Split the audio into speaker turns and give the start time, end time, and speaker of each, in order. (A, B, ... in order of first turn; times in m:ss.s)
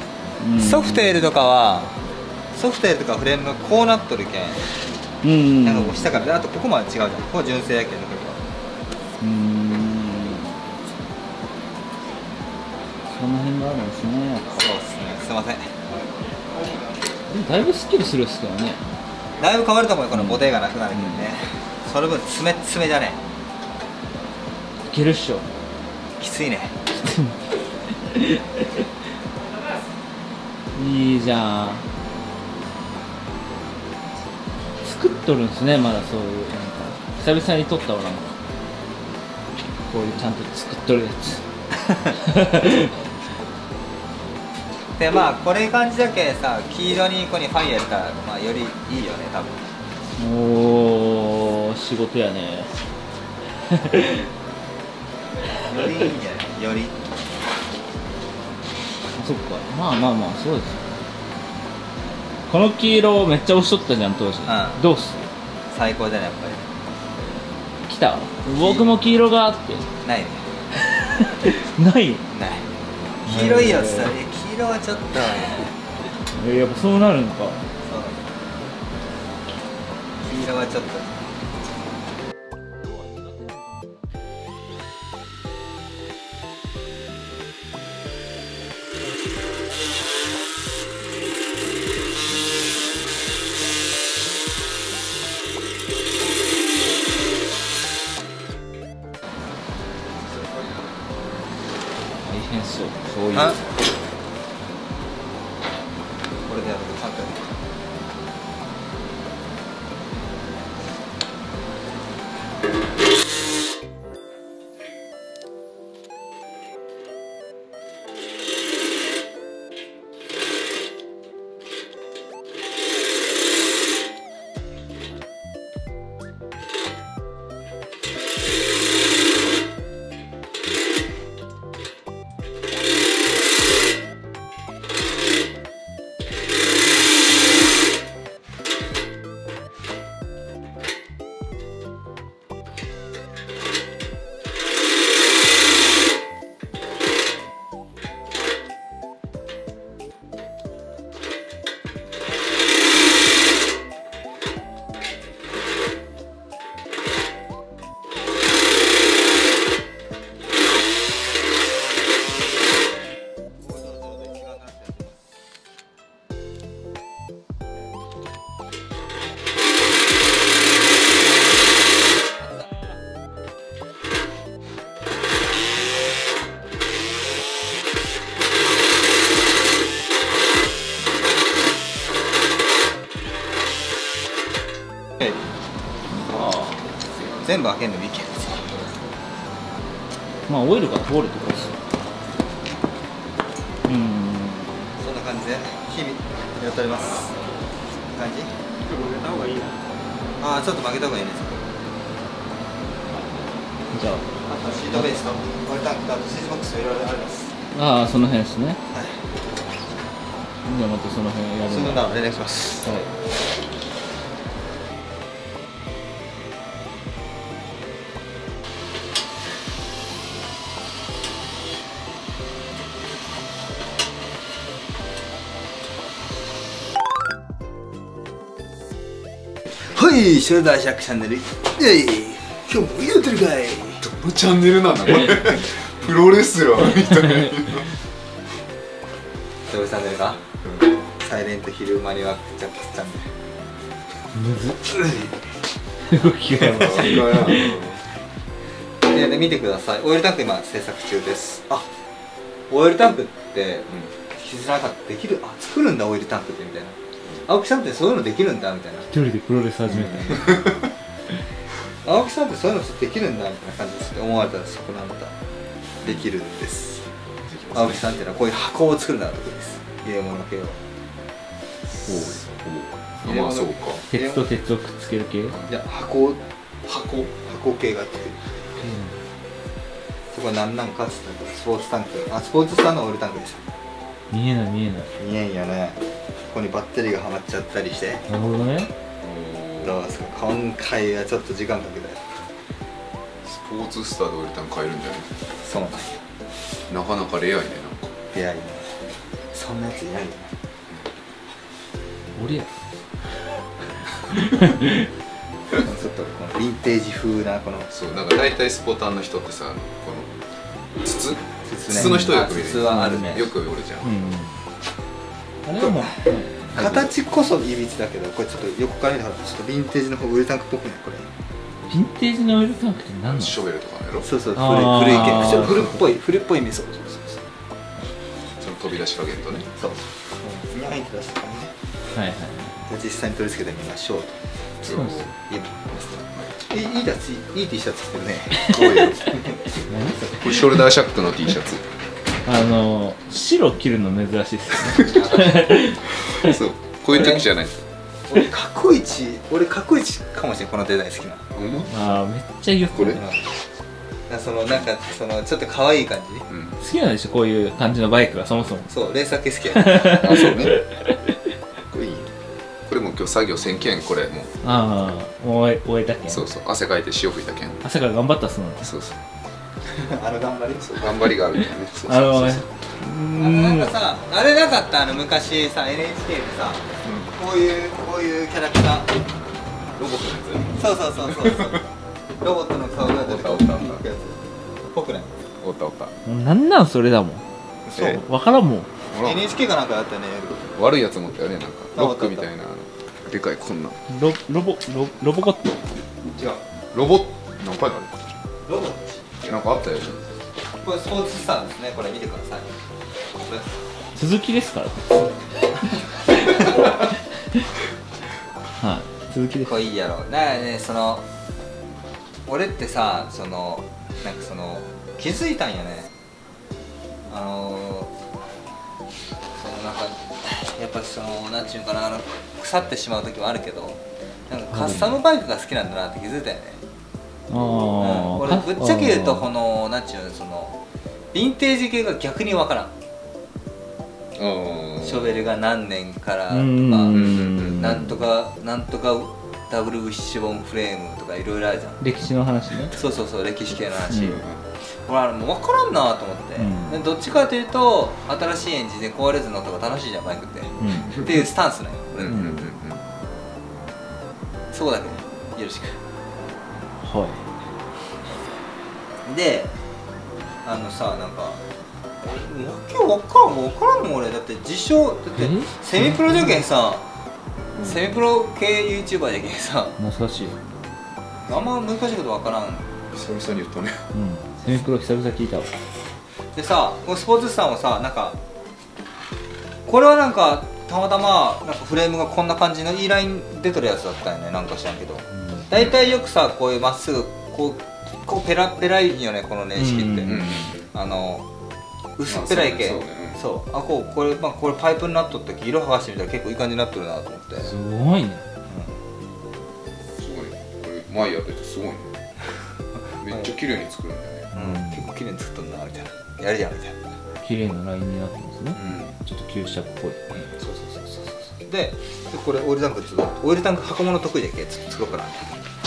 0:00.4-0:01.2 A
0:00.6-0:02.0 B
0:02.5-0:04.6 B
0:05.2-0:06.3 A
0:05.6-0:08.4 B
0:09.2-0:10.5 A
0:13.1-0:14.6 A
0:14.5-0:15.7 B
0:17.3-0:18.8 A
0:19.4-0:23.2 B
0:20.1-0:21.3 A
0:24.9-0:25.5 A
0:26.2-0:26.7 B
0:26.9-0:28.8 A
0:30.7-0:31.8 A
0:34.8-0:38.4 A
0:39.9-0:41.4 A
0:42.1-0:42.9 A
0:45.0-0:49.6 B
0:50.2-0:52.7 A
0:53.7-0:54.3 A
0:55.7-0:57.0 B
0:59.2-1:00.9 A
1:02.5-1:05.3 A
1:04.5-1:04.8 B
1:05.7-1:06.6 B
1:07.9-1:09.9 A
1:08.6-1:08.9 B
1:10.0-1:10.4 B
1:10.8-1:12.2 A
1:12.3-1:12.6 B
1:13.2-1:15.7 B
1:13.3-1:14.1 A
1:16.4-1:17.6 A
1:17.8-1:18.2 B
1:20.2-1:21.2 B
1:22.9-1:23.4 A
1:40.2-1:41.3 C
1:42.2-1:43.6 A
1:43.3-1:43.6 B
1:46.5-1:47.5 B
2:43.7-2:44.9 B
3:06.1-3:06.8 A
3:07.2-3:07.4 C
3:07.4-3:08.9 B
3:10.5-3:11.8 A
3:13.8-3:14.8 A
3:15.0-3:17.3 B
3:18.1-3:18.5 B
3:20.4-3:21.7 B
3:23.1-3:24.3 A
3:24.5-3:27.5 B
3:27.7-3:28.8 A
3:28.9-3:29.2 B
3:30.6-3:32.1 A
3:31.7-3:32.8 B
3:32.8-3:33.1 A
3:49.8-3:54.0 B
3:54.0-3:57.9 C
3:59.7-4:00.4 B
4:00.6-4:00.9 C
4:01.2-4:03.3 B
4:04.3-4:05.2 A
4:05.0-4:05.3 B
4:06.1-4:07.8 A
4:06.6-4:08.0 C
4:09.1-4:11.9 B
4:12.7-4:19.1 B
4:19.1-4:20.6 A
4:19.9-4:20.8 C
4:22.0-4:25.3 B
4:26.0-4:27.0 B
4:27.4-4:28.0 C
4:27.7-4:30.8 B
4:32.0-4:34.0 C
4:32.1-4:32.4 A
4:33.2-4:35.6 A
4:34.0-4:34.5 B
4:35.7-4:36.4 B
4:36.8-4:37.3 C
4:37.4-4:38.4 B
4:38.8-4:39.2 A
4:40.3-4:43.6 B
4:44.3-4:45.1 A
4:45.2-4:48.2 B
4:48.3-4:48.9 A
4:49.2-4:50.0 C
4:49.8-4:52.2 B
4:53.4-4:55.4 C
4:55.6-4:56.2 B
4:56.9-4:58.1 C
4:58.3-4:58.9 B
4:59.5-5:00.5 B
5:02.4-5:02.7 A
5:04.3-5:05.1 A
5:05.8-5:07.9 B
5:07.9-5:10.3 C
5:11.0-5:14.1 C
5:11.6-5:13.4 B
5:12.0-5:12.2 A
5:12.8-5:13.5 A
5:14.0-5:14.6 A
5:15.6-5:17.1 A
5:16.7-5:21.3 B
5:21.9-5:23.5 A
5:23.2-5:24.3 C
5:24.2-5:27.4 B
5:24.6-5:26.0 A
5:25.4-5:25.9 C
5:28.6-5:29.7 C
5:29.8-5:31.7 B
5:32.1-5:32.8 A
5:32.8-5:38.8 B
5:34.8-5:35.2 C
5:34.8-5:35.3 A
5:38.6-5:39.5 C
5:39.9-5:40.9 A
5:40.3-5:41.8 C
5:42.4-5:46.6 A
5:45.0-5:45.7 B
5:46.1-5:47.8 C
5:48.3-5:51.4 B
5:51.5-5:51.9 C
5:51.9-5:53.2 A
5:52.9-5:53.2 C
5:53.2-5:53.4 B
5:54.3-5:56.4 B
5:56.5-5:56.8 C
5:56.8-5:58.9 A
5:58.9-6:00.4 B
5:59.7-6:01.4 A
6:00.2-6:00.8 C
6:01.9-6:02.3 C
6:02.9-6:04.5 C
6:04.6-6:06.4 A
6:06.3-6:07.8 C
6:07.8-6:08.9 A
6:08.8-6:09.2 C
6:09.9-6:10.9 B
6:10.8-6:12.6 C
6:11.5-6:13.9 A
6:13.4-6:19.1 B
6:17.0-6:17.3 C
6:20.0-6:21.8 C
6:20.7-6:21.8 B
6:22.4-6:25.3 B
6:23.0-6:24.0 C
6:25.6-6:26.1 C
6:26.2-6:28.9 A
6:27.8-6:28.2 C
6:29.1-6:29.4 C
6:29.2-6:30.7 B
6:30.7-6:34.0 C
6:31.9-6:32.5 B
6:34.1-6:35.8 A
6:36.9-6:38.3 C
6:38.7-6:39.4 B
6:39.4-6:40.3 C
6:40.8-6:42.7 B
6:43.3-6:43.7 B
6:44.2-6:45.3 A
6:45.8-6:47.6 A
6:48.8-6:49.7 A
6:49.6-6:51.2 B
6:52.5-6:56.1 B
6:57.3-6:58.1 B
6:59.6-7:06.8 B
7:04.7-7:05.2 A
7:07.5-7:09.5 A
7:07.5-7:08.2 C
7:08.0-7:10.7 B
7:11.3-7:12.9 B
7:14.3-7:15.5 C
7:15.0-7:22.0 B
7:16.5-7:18.2 A
7:17.1-7:18.1 C
7:22.0-7:22.9 A
7:22.9-7:32.4 B
7:24.1-7:24.4 A
7:24.2-7:24.7 C
7:26.6-7:27.0 A
7:30.8-7:31.3 A
7:31.1-7:31.3 C
7:32.1-7:33.0 C
7:32.3-7:32.7 A
7:34.7-7:36.0 B
7:37.0-7:37.4 A
7:39.2-7:39.7 B
7:40.6-7:41.6 B
7:42.2-7:47.0 B
7:45.4-7:46.6 A
7:47.7-7:48.0 C
7:47.8-7:50.0 B
7:50.0-7:50.6 A
7:51.5-7:52.8 B
7:53.1-7:54.0 C
7:54.1-7:55.7 A
7:56.5-7:58.4 B
7:59.9-8:11.4 B
8:05.3-8:05.7 A
8:09.8-8:10.7 A
8:10.2-8:10.9 C
8:12.2-8:17.7 B
8:12.3-8:13.4 C
8:17.6-8:18.4 A
8:18.7-8:19.0 B
8:20.2-8:22.1 C
8:23.2-8:24.5 C
8:24.5-8:25.0 A
8:24.5-8:27.0 B
8:27.4-8:30.2 A
8:28.7-8:29.1 C
8:30.3-8:35.5 B